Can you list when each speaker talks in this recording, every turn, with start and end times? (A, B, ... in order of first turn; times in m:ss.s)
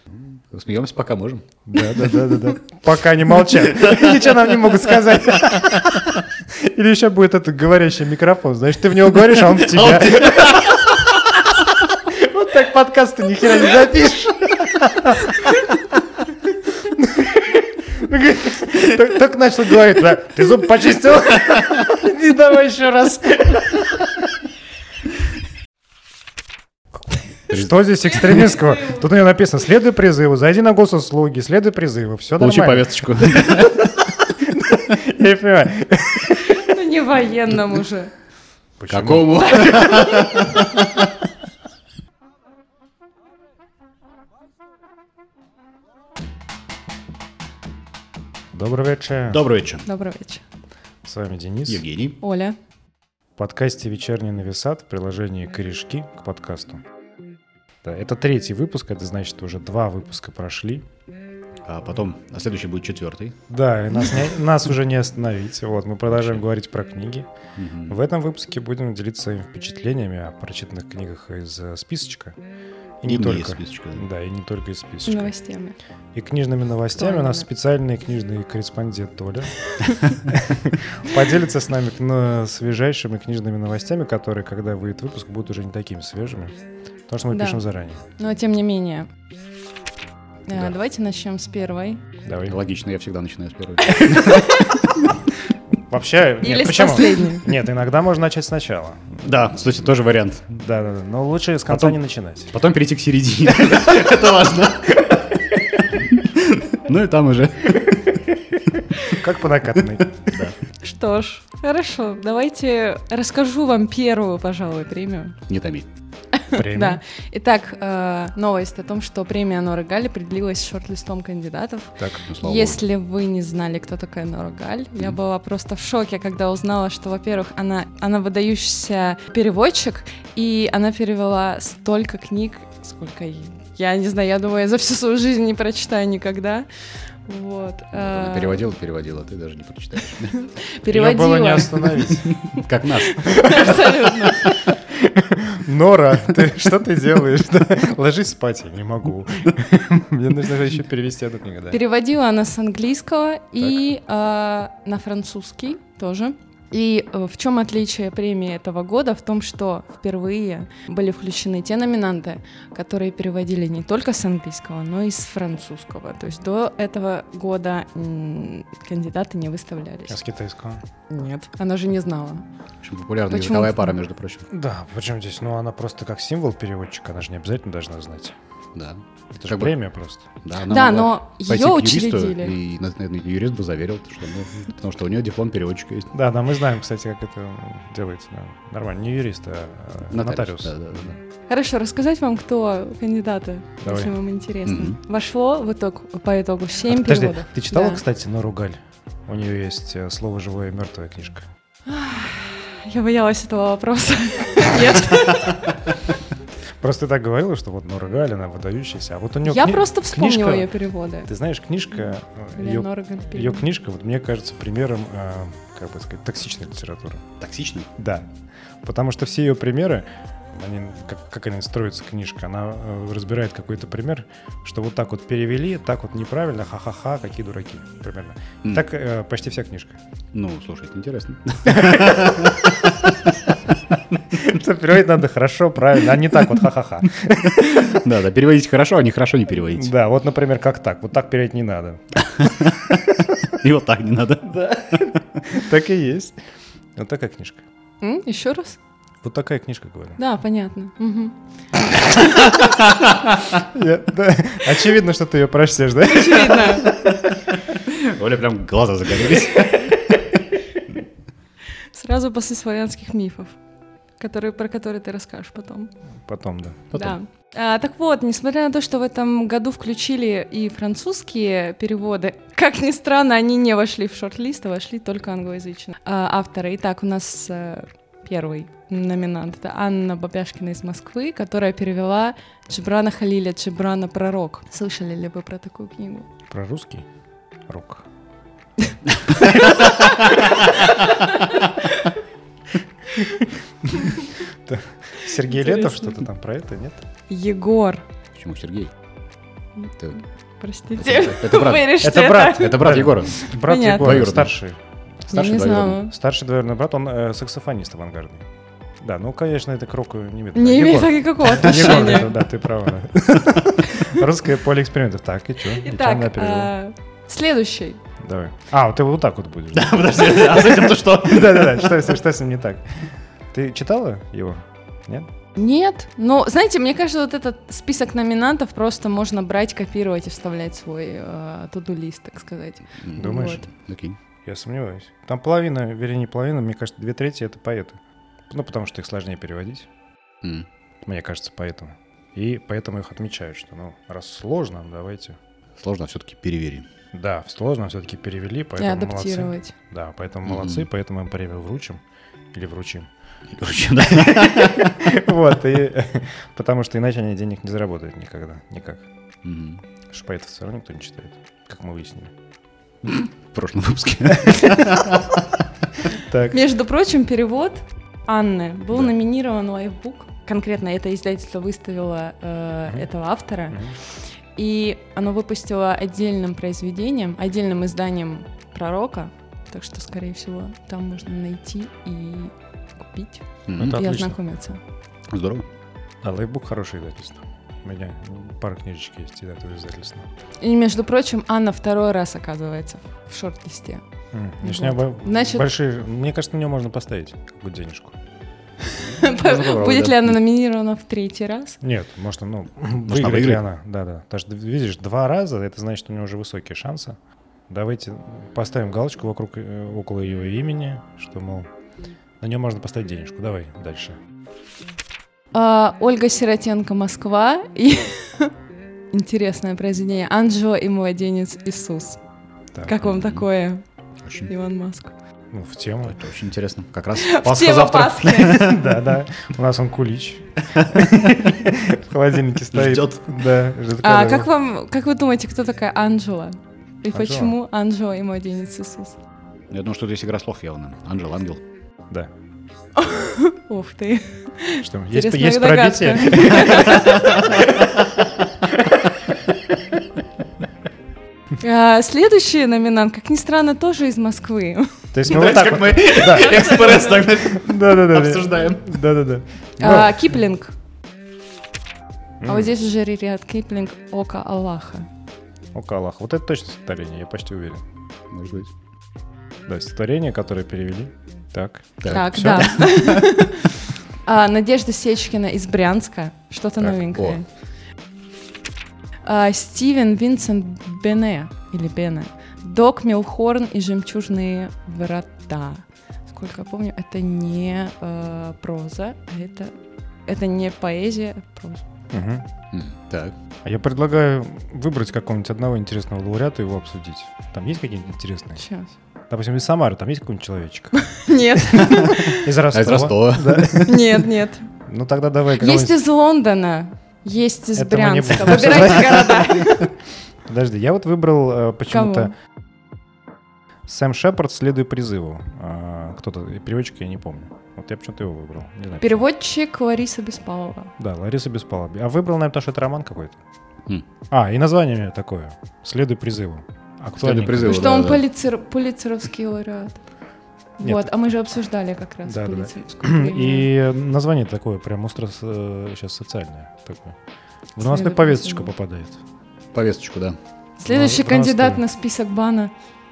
0:00.1-0:01.4 A
0:01.7-0:11.0 B
0:09.7-0:10.8 A
0:12.0-0:24.3 B
0:27.5-0:33.7 B
0:27.5-0:28.4 A
0:32.4-0:34.2 A
0:34.4-0:36.7 B
0:36.4-0:38.1 C
0:38.8-0:39.6 B
0:38.9-0:41.1 A
0:39.5-0:40.2 C
0:48.5-0:49.4 B
0:49.3-0:49.9 A
0:49.8-0:50.4 C
0:51.0-0:51.9 B
0:51.7-0:52.2 A
0:52.2-0:52.6 C
0:53.4-0:56.8 B
0:57.8-1:00.9 B
1:01.6-1:03.4 A
1:03.5-1:07.3 B
1:06.1-1:06.4 A
1:07.6-1:08.0 A
1:07.9-1:12.4 B
1:13.0-1:15.3 B
1:13.1-1:14.0 A
1:15.1-1:15.8 C
1:16.1-1:28.1 B
1:17.0-1:17.4 C
1:27.3-1:27.6 C
1:28.2-1:29.1 C
1:30.5-1:32.0 C
1:32.2-1:32.6 B
1:32.5-1:34.9 A
1:33.9-1:34.8 C
1:35.9-1:39.6 B
1:36.4-1:37.5 C
1:39.2-1:40.5 A
1:40.5-1:42.5 B
1:41.7-1:42.0 A
1:42.5-1:48.0 A
1:49.0-1:50.1 B
1:50.2-1:50.6 A
1:50.8-1:55.4 C
1:55.5-1:55.9 A
1:56.3-2:16.7 C
1:56.5-1:57.0 B
2:02.3-2:02.8 A
2:17.2-2:18.7 C
2:17.9-2:20.4 A
2:20.4-2:22.0 C
2:20.9-2:22.3 B
2:22.2-2:24.5 A
2:23.0-2:24.6 C
2:24.9-2:31.8 B
2:31.7-2:50.2 C
2:50.1-2:50.8 B
2:51.1-2:52.4 C
2:52.8-2:54.5 A
2:53.3-2:54.0 C
2:54.5-2:58.4 B
2:58.8-2:59.8 A
2:59.4-3:00.3 B
3:00.4-3:06.1 A
3:00.7-3:02.6 C
3:06.1-3:11.2 B
3:10.1-3:11.2 A
3:11.5-3:18.0 C
3:13.8-3:14.1 B
3:14.7-3:15.0 A
3:16.9-3:21.5 B
3:21.9-3:25.8 C
3:26.8-3:30.7 B
3:29.4-3:31.3 C
3:31.3-3:37.3 B
3:32.6-3:33.7 C
3:37.4-3:37.9 A
3:38.0-3:50.0 B
3:50.3-3:53.1 A
3:51.7-3:52.6 B
3:54.3-3:58.0 B
3:57.3-3:59.9 A
3:59.6-4:02.0 B
4:02.3-4:05.5 A
4:04.5-4:06.4 B
4:07.0-4:07.6 B
4:08.0-4:08.8 C
4:09.2-4:10.2 B
4:10.2-4:11.4 C
4:12.4-4:13.6 A
4:13.6-4:16.7 B
4:16.1-4:16.9 C
4:16.6-4:20.3 A
4:21.9-4:23.6 C
4:24.2-4:25.9 C
4:26.3-4:26.9 B
4:26.9-4:27.2 A
4:26.9-4:46.3 C
4:46.5-4:47.1 B
4:47.7-4:48.1 B
4:49.4-4:50.8 A
4:53.1-4:57.0 B
4:55.4-4:56.2 C
4:57.3-4:58.0 C
4:58.4-4:58.9 A
5:00.6-5:04.2 C
5:01.0-5:04.5 A
5:02.0-5:04.8 B
5:05.3-5:06.0 A
5:05.3-5:06.1 C
5:06.1-5:08.4 B
5:09.0-5:16.7 B
5:10.6-5:12.3 C
5:11.6-5:12.3 A
5:13.9-5:14.2 C
5:15.7-5:18.0 C
5:18.2-5:25.3 B
5:19.7-5:22.1 A
5:25.6-5:33.7 C
5:33.0-5:34.2 A
5:33.2-5:33.6 B
5:34.4-5:39.9 B
5:41.0-5:45.4 B
5:45.8-5:46.9 A
5:47.1-5:52.0 B
5:48.8-5:49.8 C
5:50.4-5:50.9 A
5:52.5-5:53.1 B
5:53.5-5:55.0 A
5:54.3-5:59.1 B
5:59.4-5:59.8 A
6:00.1-6:02.3 B
6:03.0-6:05.5 A
6:06.1-6:06.6 B
6:06.5-6:14.0 C
6:13.7-6:14.0 B
6:14.6-6:24.8 C
6:23.7-6:24.0 A
6:23.8-6:24.4 B
6:25.3-6:25.7 A
6:26.2-6:30.3 B
6:30.6-6:34.0 C
6:34.3-6:38.2 B
6:34.6-6:35.7 C
6:38.8-6:41.8 C
6:39.0-6:40.4 A
6:41.8-6:47.2 B
6:43.1-6:43.6 A
6:47.7-6:51.7 B
6:52.4-6:54.2 B
6:55.5-6:58.5 C
6:59.1-7:02.2 C
7:02.9-7:03.8 C
7:03.0-7:03.4 A
7:04.2-7:04.5 A
7:04.5-7:05.1 C
7:05.5-7:06.2 B
7:06.1-7:08.9 A
7:07.2-7:08.8 C
7:08.6-7:14.5 B
7:10.7-7:11.5 A
7:12.7-7:13.2 A
7:14.0-7:19.2 C
7:17.1-7:17.6 B
7:19.7-7:21.6 A
7:23.0-7:27.6 C
7:24.8-7:27.1 B
7:26.6-7:28.3 A
7:31.6-7:34.9 C
7:35.1-7:40.3 B
7:35.2-7:38.9 A
7:36.3-7:37.3 C
7:39.8-7:40.7 C
7:42.4-7:42.8 B
7:42.4-7:45.1 C
7:45.7-7:47.8 B
7:48.3-7:48.7 A
7:49.7-7:52.8 B
7:52.0-7:53.3 A
7:52.1-7:57.5 C
7:59.2-8:09.7 C
8:10.3-8:11.8 C
8:12.1-8:12.5 B
8:12.7-8:13.4 A
8:13.6-8:18.6 B
8:18.6-8:18.9 C
8:19.3-8:21.0 B
8:21.0-8:22.5 C
8:22.3-8:24.2 B
8:22.7-8:23.9 A
8:23.8-8:24.7 C
8:24.9-8:26.0 B
8:25.6-8:29.9 C
8:27.8-8:29.7 B
8:28.6-8:29.8 A
8:30.5-8:32.3 B
8:31.9-8:32.3 C
8:33.9-8:39.2 B
8:39.0-8:40.9 C
8:41.0-8:43.4 B
8:44.3-8:47.9 B
8:47.2-8:48.2 A
8:47.6-8:50.0 C
8:50.8-8:53.7 C
8:50.8-8:51.1 B
8:52.2-8:57.2 B
8:57.8-8:59.2 B
8:57.8-8:58.7 C
8:59.7-9:00.4 A
9:00.8-9:02.7 C
9:00.9-9:01.8 B